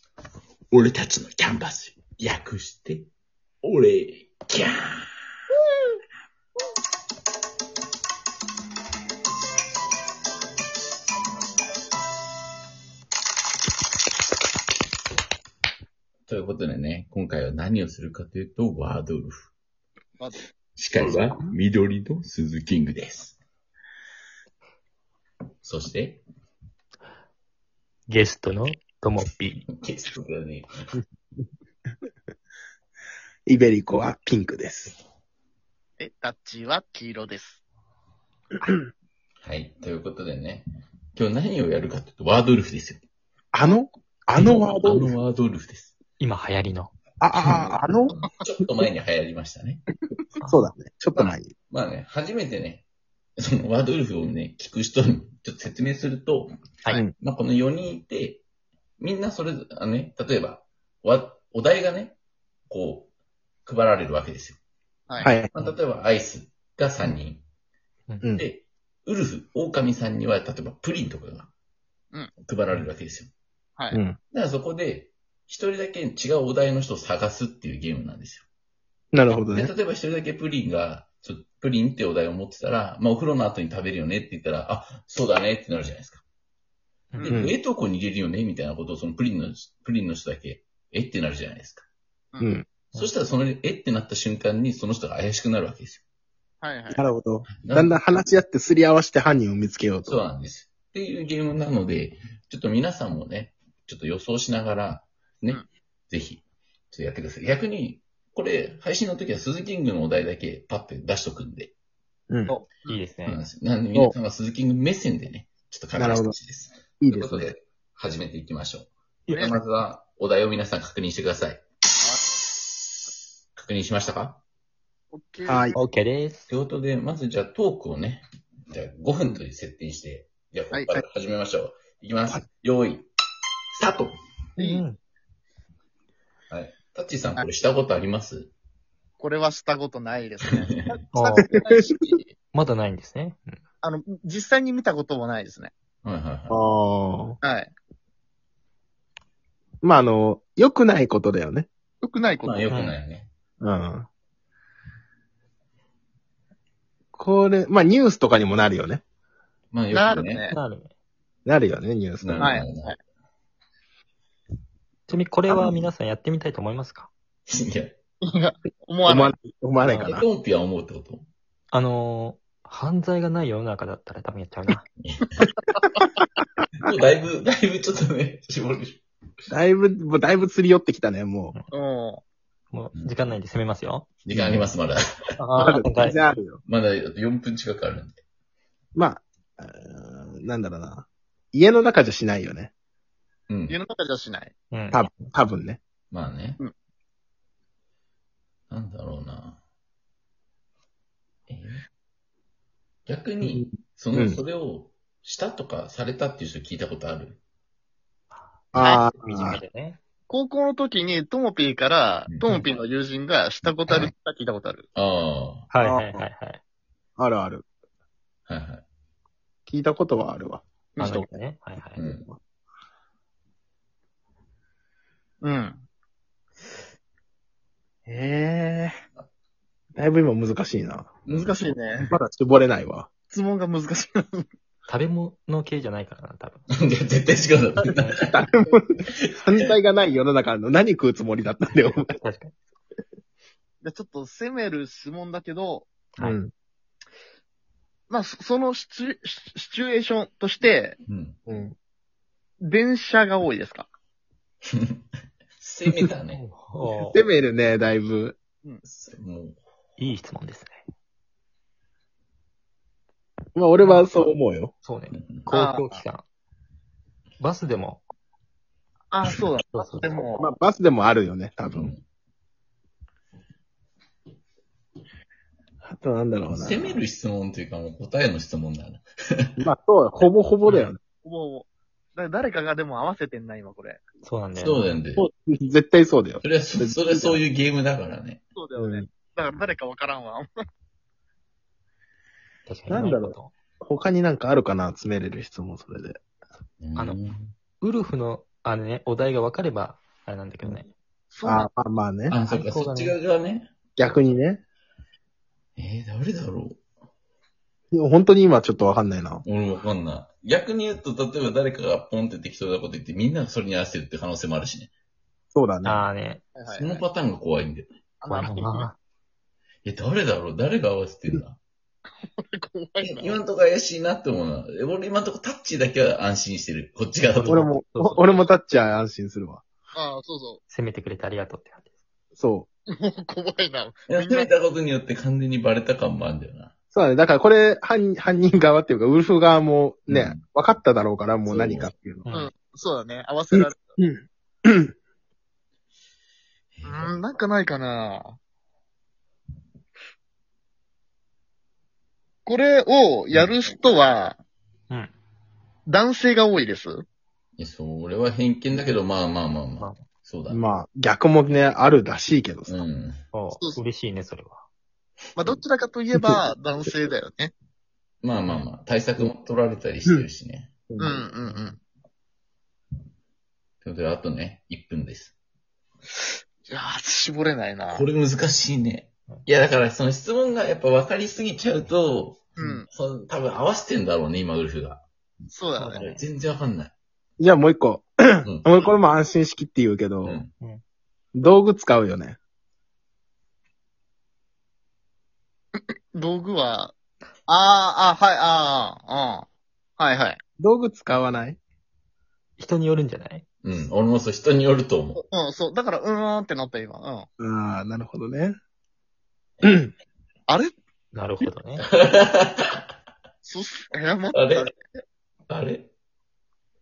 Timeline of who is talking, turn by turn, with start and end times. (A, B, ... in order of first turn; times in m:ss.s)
0:00.7-0:03.1 A
0:03.6-0:05.0 A
0:16.3-0:19.5 A
0:20.2-0:20.5 B
0:20.8-0:23.4 A
0:25.6-0:26.2 A
0:28.1-0:29.6 C
0:29.8-0:30.7 A
0:33.5-0:35.0 D
0:36.0-0:37.6 B
0:39.4-0:43.0 A
0:43.5-0:45.1 D
0:44.3-0:45.9 A
0:46.2-0:46.9 C
0:47.2-0:48.1 D
0:47.3-0:49.8 A
0:50.4-0:51.5 D
0:51.2-0:52.8 A
0:53.4-0:56.6 A
0:57.2-0:58.4 A
0:59.0-1:02.2 A
1:02.7-1:03.1 A
1:03.6-1:04.6 A
1:05.2-1:05.5 D
1:05.5-1:07.4 A
1:08.4-1:11.5 A
1:12.4-1:13.3 A
1:13.9-1:14.2 D
1:14.3-1:18.4 A
1:19.1-1:19.7 D
1:19.5-1:26.2 A
1:27.1-1:27.4 C
1:27.2-1:31.8 A
1:27.3-1:27.5 D
1:32.4-1:32.6 D
1:32.9-1:36.0 A
1:36.6-1:37.0 B
1:36.9-1:40.2 D
1:37.5-1:38.0 A
1:40.0-1:51.7 A
1:52.5-1:53.0 B
1:52.9-1:53.4 C
1:53.2-2:01.6 A
1:55.9-1:56.4 D
1:57.0-1:57.5 D
1:59.2-1:59.6 C
2:03.5-2:04.4 A
2:05.1-2:05.7 B
2:05.5-2:05.8 D
2:05.7-2:06.5 C
2:06.5-2:13.0 A
2:10.7-2:11.0 B
2:13.7-2:14.1 A
2:14.6-2:14.8 B
2:14.6-2:15.0 C
2:16.5-2:18.5 A
2:19.2-2:22.3 B
2:21.1-2:21.5 C
2:21.4-2:22.0 D
2:22.5-2:23.6 C
2:23.8-2:25.7 B
2:26.0-2:26.6 A
2:26.5-2:27.4 D
2:27.4-2:27.7 B
2:29.8-2:31.7 D
2:32.0-2:32.6 B
2:32.4-2:33.3 A
2:32.7-2:33.0 C
2:33.6-2:34.1 D
2:37.1-2:39.0 D
2:39.7-2:40.4 A
2:39.9-2:40.6 B
2:40.5-2:40.9 C
2:41.4-2:42.5 D
2:42.2-2:42.9 A
2:42.4-2:42.9 B
2:45.1-2:47.1 C
2:47.5-2:47.9 A
2:48.2-2:49.4 B
2:49.0-2:50.3 D
2:49.8-2:50.2 C
2:50.0-2:51.2 A
2:51.7-2:54.8 C
2:55.0-2:55.4 A
2:56.8-2:59.0 A
2:59.5-3:01.5 D
3:01.7-3:02.2 B
3:02.7-3:04.1 C
3:02.9-3:03.4 A
3:04.2-3:05.0 A
3:04.3-3:04.7 D
3:05.4-3:06.2 C
3:05.6-3:06.6 D
3:06.6-3:08.2 A
3:08.9-3:12.7 D
3:13.5-3:13.8 A
3:13.7-3:14.5 B
3:14.7-3:15.0 C
3:14.9-3:15.8 D
3:16.1-3:16.6 A
3:18.7-3:19.6 A
3:21.5-3:21.8 A
3:23.0-3:27.4 A
3:23.4-3:24.4 D
3:28.3-3:30.0 C
3:28.7-3:29.6 D
3:28.8-3:29.0 B
3:30.3-3:34.8 B
3:35.0-3:35.7 A
3:35.7-3:36.6 C
3:35.8-3:36.3 D
3:37.2-3:37.6 D
3:38.5-3:38.8 A
3:39.7-3:41.4 D
3:41.0-3:42.0 C
3:42.0-3:42.3 A
3:45.4-3:45.8 B
3:48.1-3:48.9 B
3:50.0-3:51.2 D
3:51.3-3:51.7 A
3:51.3-3:52.1 B
3:52.1-3:53.1 D
3:53.3-3:54.4 B
3:54.9-3:56.6 C
3:56.7-3:58.3 A
3:57.9-3:58.2 C
3:58.3-4:02.1 D
4:01.8-4:02.5 C
4:03.8-4:05.9 B
4:06.2-4:06.5 D
4:08.1-4:11.0 B
4:11.1-4:11.4 A
4:11.5-4:11.7 D
4:12.6-4:13.9 B
4:14.7-4:15.0 A
4:15.6-4:16.4 A
4:16.3-4:17.2 C
4:17.0-4:18.4 D
4:18.8-4:19.6 A
4:20.0-4:20.8 C
4:23.5-4:24.7 D
4:23.8-4:24.2 C
4:24.8-4:26.2 C
4:25.5-4:26.0 B
4:27.4-4:28.0 C
4:29.1-4:30.5 B
4:29.7-4:30.1 C
4:30.4-4:31.9 D
4:31.7-4:32.0 A
4:35.8-4:37.0 D
4:36.5-4:39.4 A
4:39.6-4:41.0 D
4:40.7-4:40.9 C
4:41.2-4:44.0 B
4:44.2-4:44.8 C
4:44.5-4:45.2 A
4:45.2-4:47.4 D
4:46.4-4:48.4 A
4:48.6-4:50.4 B
4:48.8-4:49.0 D
4:52.7-4:53.5 C
4:52.9-4:56.2 D
4:56.8-4:57.5 A
4:57.0-4:57.2 C
4:57.8-5:00.9 C
5:01.3-5:01.7 B
5:01.4-5:02.4 D
5:02.3-5:03.7 A
5:02.5-5:03.2 C
5:04.0-5:04.6 D
5:05.8-5:06.8 A
5:07.9-5:09.4 D
5:09.4-5:14.9 A
5:15.5-5:16.0 D
5:15.8-5:16.4 C
5:16.6-5:17.0 B
5:16.7-5:17.9 A
5:18.2-5:18.9 B
5:18.3-5:19.0 C
5:19.8-5:21.6 A
5:22.2-5:23.4 B
5:23.0-5:27.6 A
5:27.3-5:28.4 C
5:27.5-5:29.6 D
5:29.9-5:30.6 B
5:30.7-5:31.9 C
5:32.4-5:32.7 D
5:32.9-5:34.5 B
5:34.1-5:36.7 A
5:36.9-5:42.2 D
5:40.1-5:40.4 A
5:41.4-5:41.9 A
5:42.2-5:42.5 C
5:42.3-5:44.0 B
5:43.5-5:44.9 D
5:46.7-5:47.1 A
5:46.8-5:48.4 B
5:52.4-5:54.4 B
5:55.9-5:57.0 B
5:57.6-6:00.6 A
6:00.5-6:02.8 D
6:02.7-6:03.2 A
6:03.3-6:04.6 C
6:03.6-6:03.8 B
6:05.4-6:07.5 B
6:08.2-6:10.7 A
6:10.9-6:11.2 D
6:11.0-6:11.8 B
6:13.8-6:15.3 A
6:16.6-6:18.0 B
6:17.9-6:25.0 A
6:22.6-6:22.9 B
6:25.5-6:26.0 B
6:25.8-6:26.2 C
6:26.0-6:26.9 A
6:27.4-6:30.4 D
6:28.4-6:28.9 A
6:30.2-6:30.5 A
6:31.3-6:32.4 D
6:35.8-6:36.9 B
6:37.5-6:39.5 B
6:40.0-6:40.4 B
6:40.6-6:41.6 D
6:42.6-6:43.4 C
6:43.6-6:45.2 A
6:45.2-6:47.3 B
6:47.4-6:48.6 D
6:49.6-6:49.9 D
6:51.1-6:51.8 C
6:51.8-6:52.8 A
6:53.4-6:54.8 B
6:54.3-6:54.7 A
6:55.5-6:55.9 A